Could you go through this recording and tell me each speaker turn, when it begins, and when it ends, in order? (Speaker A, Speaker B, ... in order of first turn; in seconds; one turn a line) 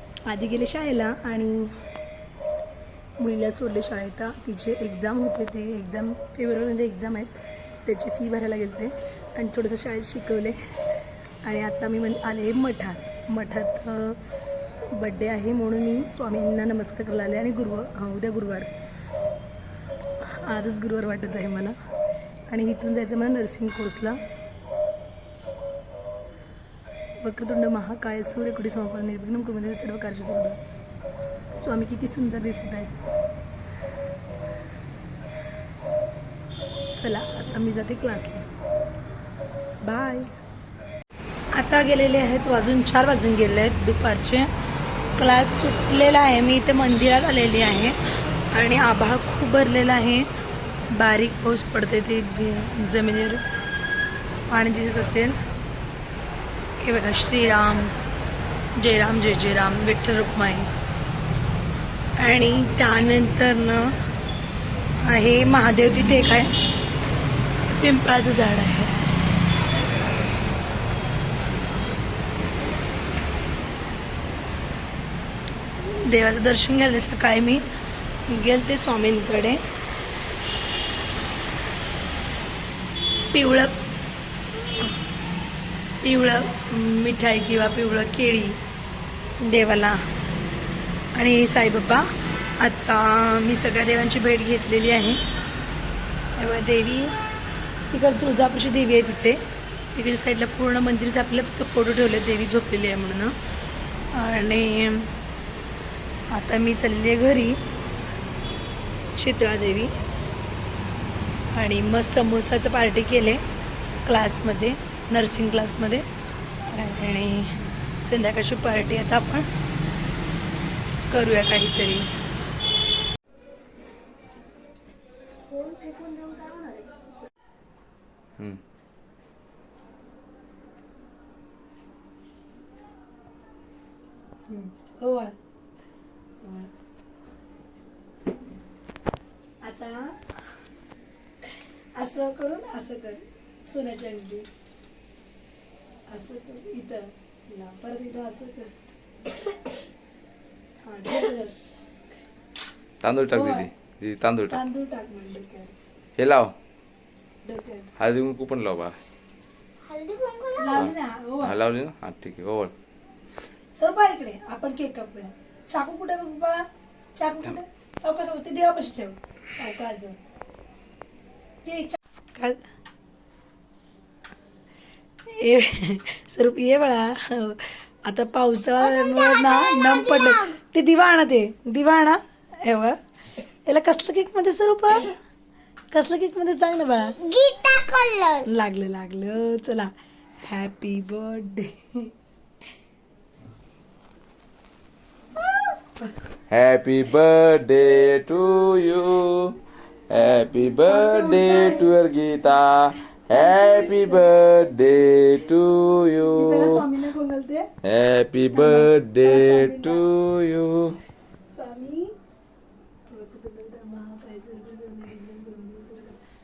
Speaker A: 0.2-1.7
Speaker A: 3.2-10.6
Speaker A: 11.4-14.2
Speaker A: 14.9-18.7
Speaker A: 20.3-21.7
Speaker A: 22.5-24.2
Speaker A: 27.2-30.6
Speaker A: 31.5-33.0
Speaker A: 36.9-38.5
Speaker A: 39.8-40.3
Speaker A: 41.5-44.5
Speaker A: 45.2-48.0
Speaker A: 48.5-50.3
Speaker A: 50.9-53.4
Speaker A: 54.5-55.4
Speaker A: 56.8-57.9
Speaker A: 58.8-60.7
Speaker A: 62.2-63.9
Speaker A: 65.0-66.5
Speaker A: 67.7-68.9
Speaker A: 75.8-77.7
Speaker A: 78.3-79.6
Speaker A: 83.3-83.7
Speaker A: 86.0-88.6
Speaker A: 89.4-90.0
Speaker A: 91.1-92.0
Speaker A: 92.6-95.2
Speaker A: 96.4-97.2
Speaker A: 97.9-103.3
Speaker A: 104.1-105.1
Speaker A: 106.3-107.6
Speaker A: 109.2-109.9
Speaker A: 111.5-113.4
Speaker A: 114.0-116.0
Speaker A: 116.7-119.5
Speaker A: 121.1-122.1
Speaker B: 125.5-127.0
Speaker A: 134.5-135.4
Speaker A: 136.4-136.7
Speaker A: 139.6-140.1
Speaker A: 141.9-144.5
Speaker A: 146.1-149.7
Speaker A: 150.8-151.5
Speaker C: 153.0-154.6
Speaker A: 153.3-153.7
Speaker A: 154.5-155.7
Speaker C: 156.2-156.5
Speaker A: 157.4-157.9
Speaker C: 158.0-159.0
Speaker B: 159.8-160.8
Speaker A: 160.6-161.6
Speaker C: 160.8-162.7
Speaker A: 163.8-170.2
Speaker A: 171.6-172.6
Speaker A: 175.2-185.2
Speaker B: 178.9-180.5
Speaker A: 185.9-187.2
Speaker B: 187.2-188.4
Speaker A: 188.4-189.9
Speaker A: 190.4-192.1
Speaker C: 196.5-199.6
Speaker C: 200.1-206.8
Speaker A: 200.9-201.9
Speaker A: 203.3-204.3
Speaker A: 206.2-207.7
Speaker C: 207.8-211.0
Speaker A: 208.5-210.1
Speaker A: 211.4-212.1
Speaker A: 213.1-216.2